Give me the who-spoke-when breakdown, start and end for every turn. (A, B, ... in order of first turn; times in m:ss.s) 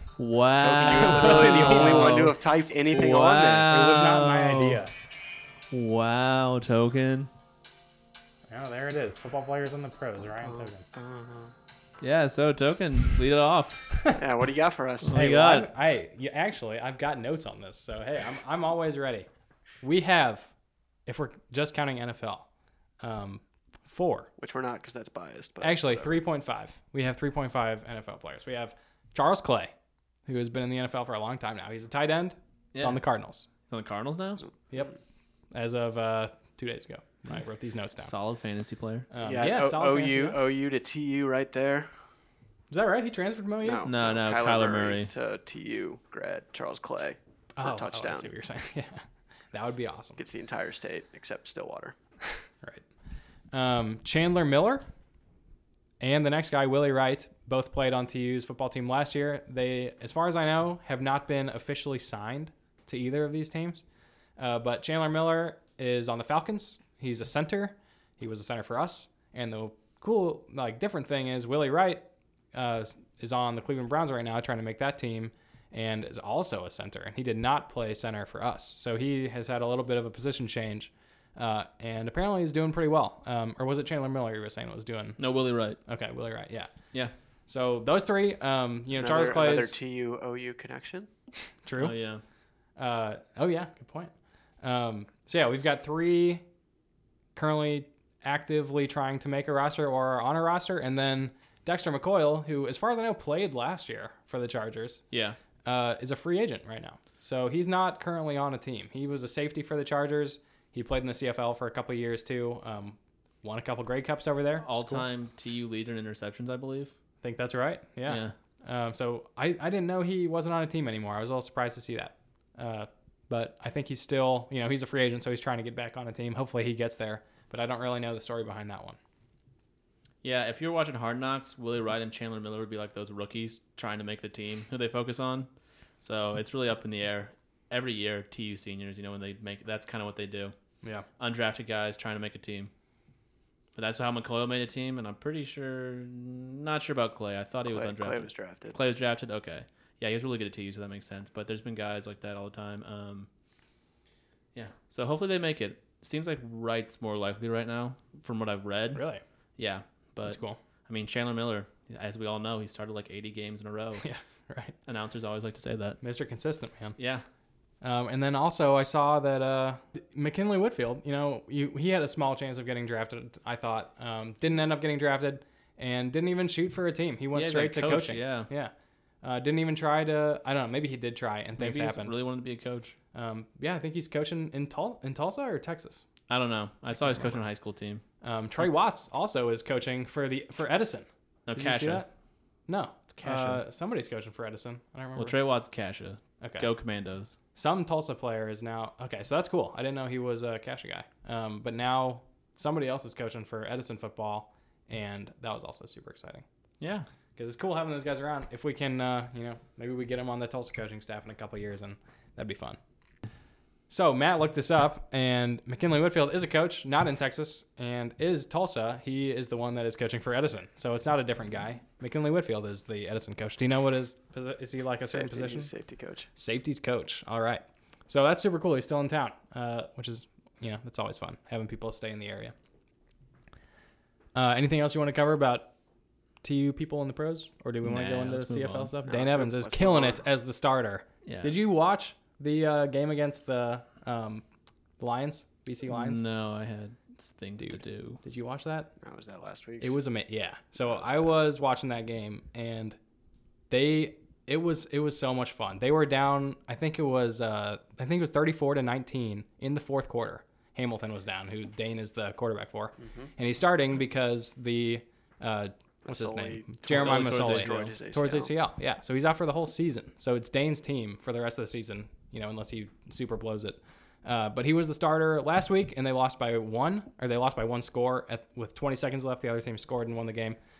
0:00.2-0:02.4 A
0:00.6-0:03.9 B
0:00.8-0:02.2 C
0:02.9-0:04.8 A
0:03.7-0:04.9 C
0:05.7-0:07.3 A
0:08.5-0:10.9 C
0:10.4-0:11.5 B
0:12.0-0:13.9 A
0:14.2-0:15.2 B
0:15.0-0:15.7 A
0:15.1-0:19.3 C
0:19.8-0:20.5 C
0:21.1-0:22.5 C
0:23.0-0:24.3 C
0:24.4-0:26.2 B
0:25.6-0:29.7 C
0:30.3-0:33.5 C
0:32.8-0:33.1 A
0:33.7-0:34.4 A
0:35.5-0:38.1 C
0:38.0-0:39.1 A
0:39.1-0:40.4 C
0:39.2-0:41.9 B
0:42.7-0:43.9 C
0:43.6-0:48.3 B
0:43.8-0:45.1 A
0:47.6-0:50.2 C
0:50.2-0:52.0 B
0:53.5-0:54.9 C
0:56.0-1:03.8 C
1:04.4-1:12.0 C
1:12.5-1:25.2 C
1:25.2-1:25.8 A
1:25.8-1:26.7 C
1:27.5-1:29.7 C
1:28.9-1:31.1 B
1:31.6-1:31.9 C
1:31.8-1:32.2 A
1:32.8-1:36.4 C
1:37.4-1:45.0 C
1:45.1-1:45.4 A
1:45.6-1:55.1 C
1:54.6-1:56.9 A
1:57.2-2:09.0 C
1:58.1-1:58.3 A
2:10.2-2:15.5 A
2:16.0-2:20.5 A
2:21.2-2:22.7 A
2:23.8-2:33.3 A
2:27.7-2:28.8 B
2:34.5-2:39.0 A
2:38.9-2:39.2 C
2:39.6-2:44.0 A
2:40.2-2:40.6 C
2:44.0-2:44.8 C
2:44.9-2:46.0 A
2:46.0-2:47.0 C
2:47.0-2:47.2 A
2:47.8-3:02.2 C
2:57.3-2:58.5 A
3:01.6-3:03.0 A
3:03.1-3:06.1 C
3:06.3-3:08.0 A
3:06.9-3:07.4 C
3:08.2-3:12.1 C
3:11.5-3:12.1 A
3:12.7-3:15.4 C
3:13.1-3:13.6 A
3:15.2-3:17.4 A
3:16.4-3:16.7 C
3:17.6-3:26.4 C
3:26.8-3:27.1 A
3:27.4-3:32.8 C
3:33.9-3:45.7 C
3:45.0-3:46.3 B
3:46.4-3:52.5 C
3:54.4-3:55.7 C
3:56.4-4:04.4 C
3:57.8-3:58.9 A
3:59.1-4:00.2 B
4:01.3-4:01.6 A
4:05.0-4:06.2 C
4:05.9-4:08.2 A
4:07.6-4:08.9 C
4:09.0-4:10.0 B
4:09.8-4:13.0 C
4:13.7-4:40.6 C
4:23.0-4:23.3 B
4:26.0-4:28.5 B
4:26.9-4:27.9 A